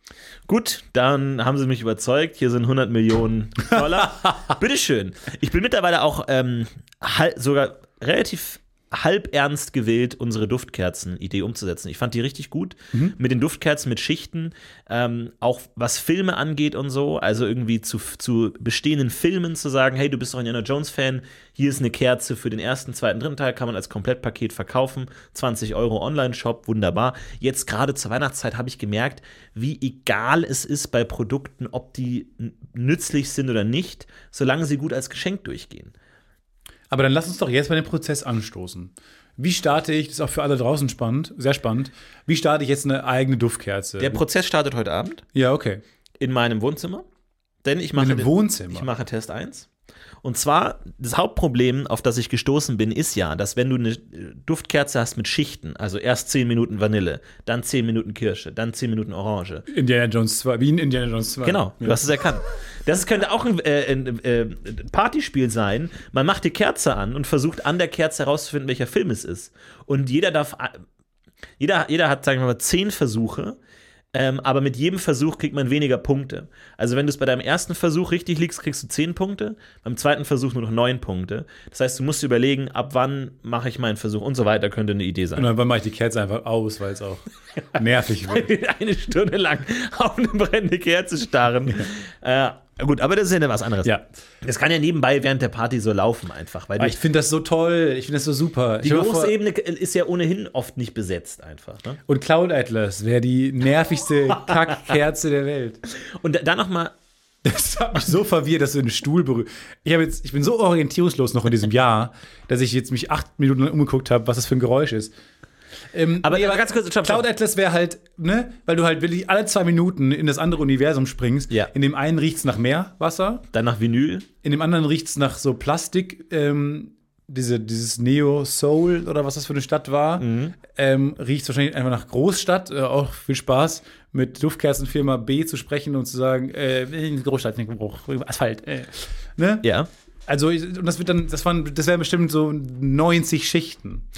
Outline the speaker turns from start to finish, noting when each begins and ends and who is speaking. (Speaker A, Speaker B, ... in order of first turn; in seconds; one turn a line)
Speaker A: 0.5-35.9
Speaker B: 3.8-4.3
Speaker B: 36.9-44.2
Speaker A: 44.0-45.2
Speaker B: 45.3-45.8
Speaker A: 46.2-47.0
Speaker A: 47.6-49.7
Speaker B: 48.0-48.9
Speaker A: 50.2-59.7
Speaker B: 59.7-62.1
Speaker A: 61.4-70.8
Speaker A: 71.6-73.6
Speaker A: 74.1-85.5
Speaker B: 85.3-87.2
Speaker A: 87.6-97.0
Speaker B: 87.8-88.5
Speaker B: 96.8-99.3
Speaker A: 98.8-102.0
Speaker B: 102.1-105.8
Speaker A: 106.0-106.9
Speaker B: 107.4-115.1
Speaker B: 115.9-123.4
Speaker A: 116.2-117.2
Speaker A: 123.5-124.3
Speaker B: 124.4-139.7
Speaker A: 130.2-130.6
Speaker A: 139.6-139.9
Speaker B: 140.3-144.1